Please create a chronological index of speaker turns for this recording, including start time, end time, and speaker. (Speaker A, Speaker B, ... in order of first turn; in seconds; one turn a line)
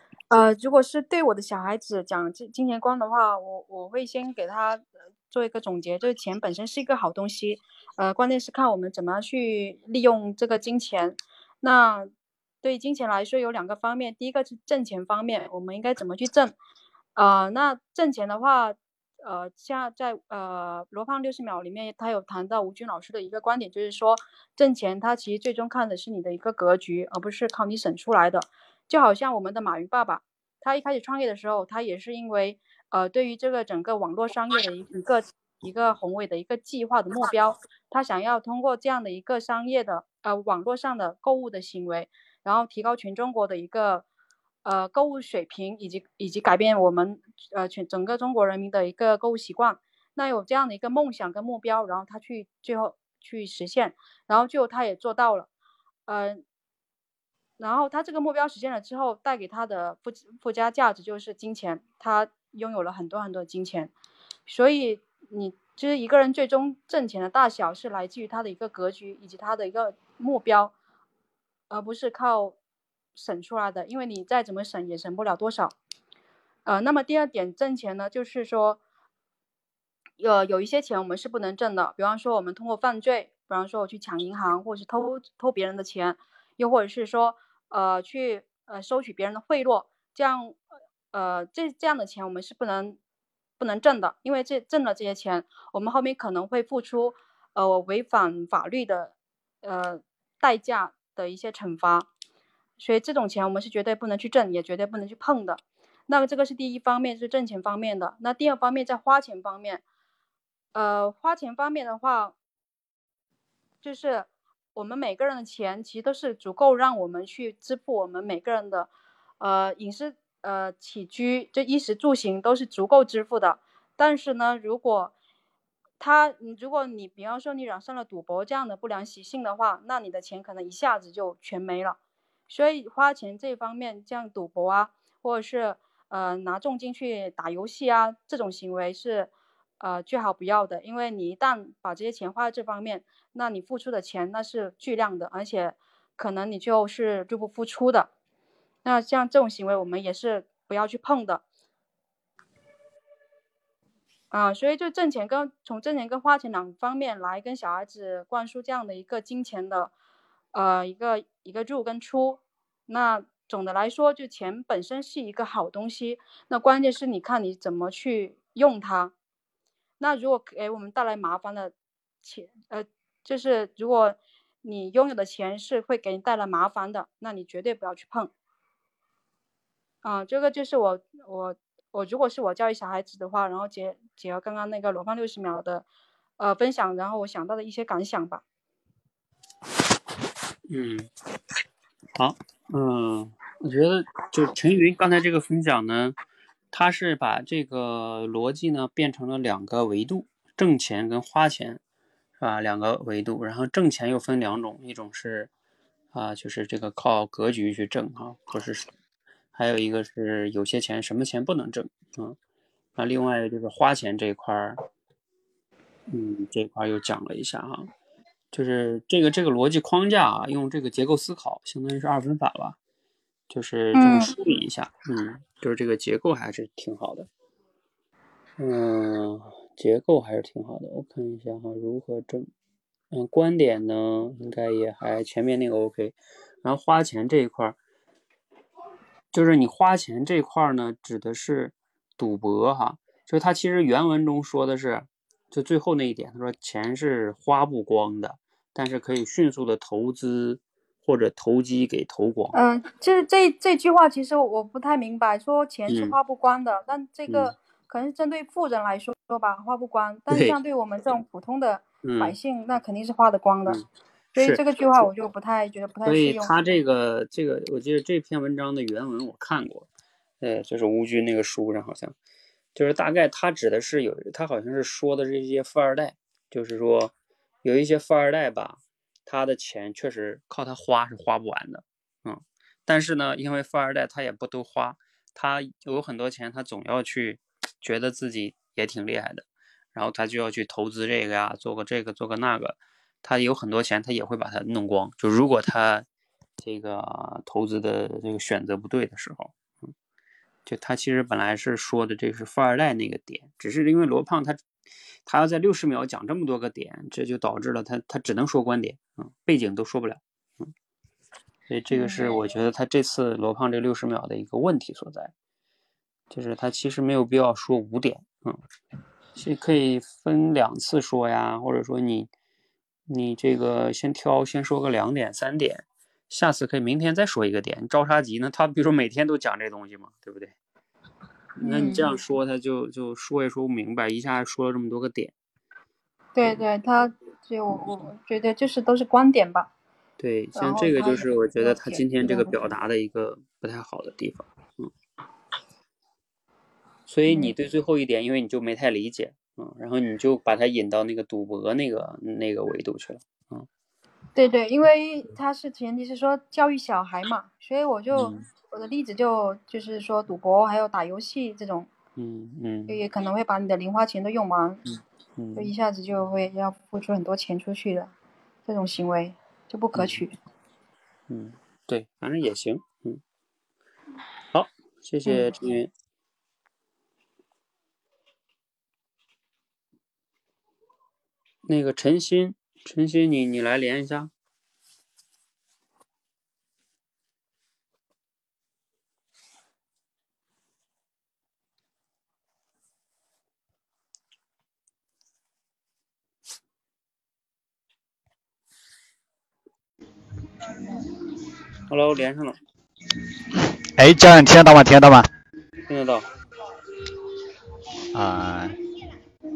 Speaker A: 0.3-12.1
Speaker A: 12.6-16.6
Speaker A: 17.2-44.1
Speaker A: 44.6-55.5
Speaker A: 56.1-56.4
Speaker A: 57.6-63.9
Speaker A: 64.5-70.7
Speaker A: 71.7-72.6
Speaker A: 73.2-75.8
Speaker A: 76.7-78.8
Speaker A: 80.2-90.6
Speaker A: 91.1-93.0
Speaker A: 93.6-102.1
Speaker A: 102.8-109.8
Speaker A: 110.7-112.3
Speaker A: 113.8-118.9
Speaker A: 119.4-125.1
Speaker A: 126.0-132.0
Speaker A: 132.5-148.1
Speaker A: 148.8-151.4
Speaker A: 154.3-159.9
Speaker A: 160.5-169.1
Speaker A: 170.0-178.3
Speaker A: 180.0-185.9
Speaker A: 186.4-188.4
Speaker B: 190.7-191.1
Speaker B: 192.2-196.2
Speaker B: 196.7-201.8
Speaker B: 202.4-205.5
Speaker B: 206.1-208.9
Speaker B: 209.6-212.4
Speaker B: 213.0-214.8
Speaker B: 216.1-217.9
Speaker B: 218.5-222.8
Speaker B: 223.5-227.3
Speaker A: 223.9-224.3
Speaker B: 228.6-232.5
Speaker B: 233.1-237.8
Speaker B: 239.3-252.6
Speaker A: 252.5-263.8
Speaker B: 255.9-256.2
Speaker B: 257.3-257.5
Speaker B: 260.3-260.6
Speaker B: 262.0-262.4
Speaker B: 264.3-265.1
Speaker A: 264.4-266.7
Speaker B: 266.1-269.9
Speaker B: 270.4-272.1
Speaker B: 272.8-277.1
Speaker B: 277.6-296.1
Speaker B: 296.6-299.9
Speaker B: 300.7-304.6
Speaker B: 305.3-310.7
Speaker B: 311.7-315.3
Speaker A: 311.9-312.4
Speaker B: 316.3-318.6
Speaker B: 319.4-322.3
Speaker B: 323.1-330.5
Speaker B: 331.6-335.3
Speaker A: 331.6-332.1
Speaker A: 336.4-339.7
Speaker B: 340.2-344.9
Speaker A: 340.6-342.5
Speaker B: 347.1-353.7
Speaker A: 347.3-347.5
Speaker A: 354.4-361.9
Speaker B: 358.1-358.4
Speaker B: 362.2-363.0
Speaker A: 362.9-364.8
Speaker B: 365.4-365.7
Speaker A: 365.6-368.1
Speaker A: 368.7-370.3
Speaker B: 369.9-370.2
Speaker B: 371.3-373.2
Speaker B: 374.5-375.9
Speaker A: 375.3-375.6
Speaker B: 381.7-384.3
Speaker B: 401.9-402.6
Speaker C: 404.0-405.3
Speaker B: 405.9-406.3
Speaker C: 408.1-408.8